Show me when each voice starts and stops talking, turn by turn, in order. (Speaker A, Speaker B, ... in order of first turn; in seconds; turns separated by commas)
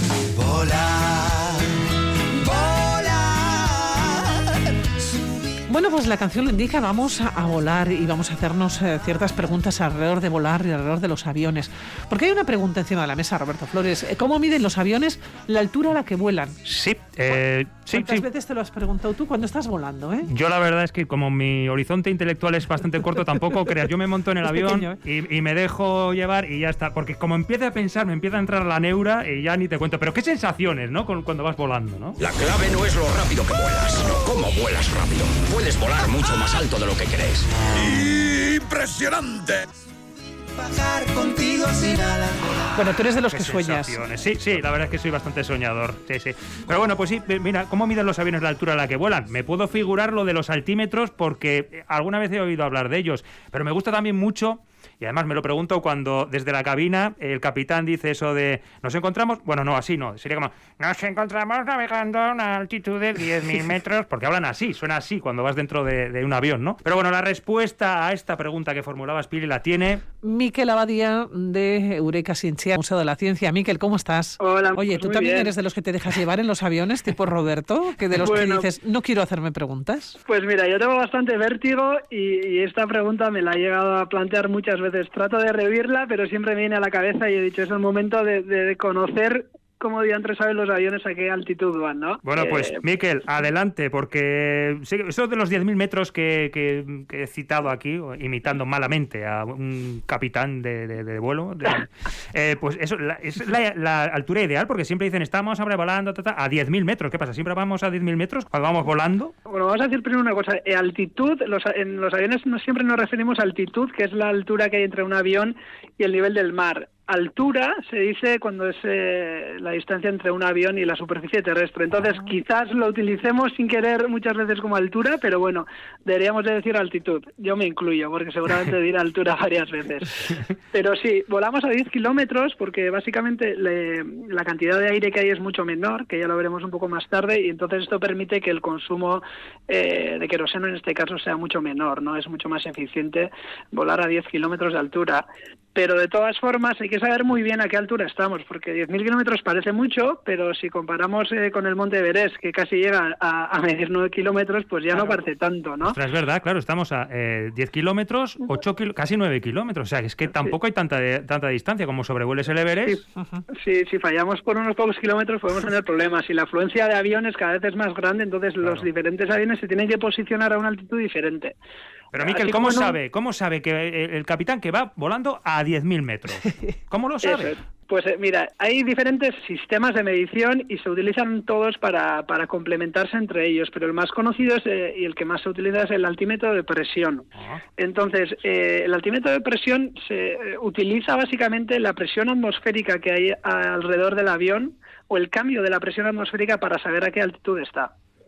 Speaker A: 0.3-4.9, Speaker B: 5.7-16.6, Speaker C: 16.7-18.2, Speaker B: 17.9-20.3, Speaker C: 20.2-32.2, Speaker B: 24.4-25.0, Speaker D: 32.2-39.6, Speaker A: 40.6-42.6, Speaker B: 42.7-44.0, Speaker C: 43.3-70.0, Speaker B: 70.2-80.2, Speaker E: 74.4-75.5, Speaker E: 78.2-78.7, Speaker E: 80.2-92.8, Speaker C: 92.2-109.3, Speaker E: 109.5-156.0, Speaker C: 154.9-155.2, Speaker C: 155.8-163.0, Speaker B: 163.2-163.4, Speaker E: 163.5-171.6, Speaker C: 168.6-168.9, Speaker C: 172.1-177.5, Speaker E: 172.2-172.9, Speaker B: 176.4-176.7, Speaker E: 177.2-187.3, Speaker E: 187.8-197.9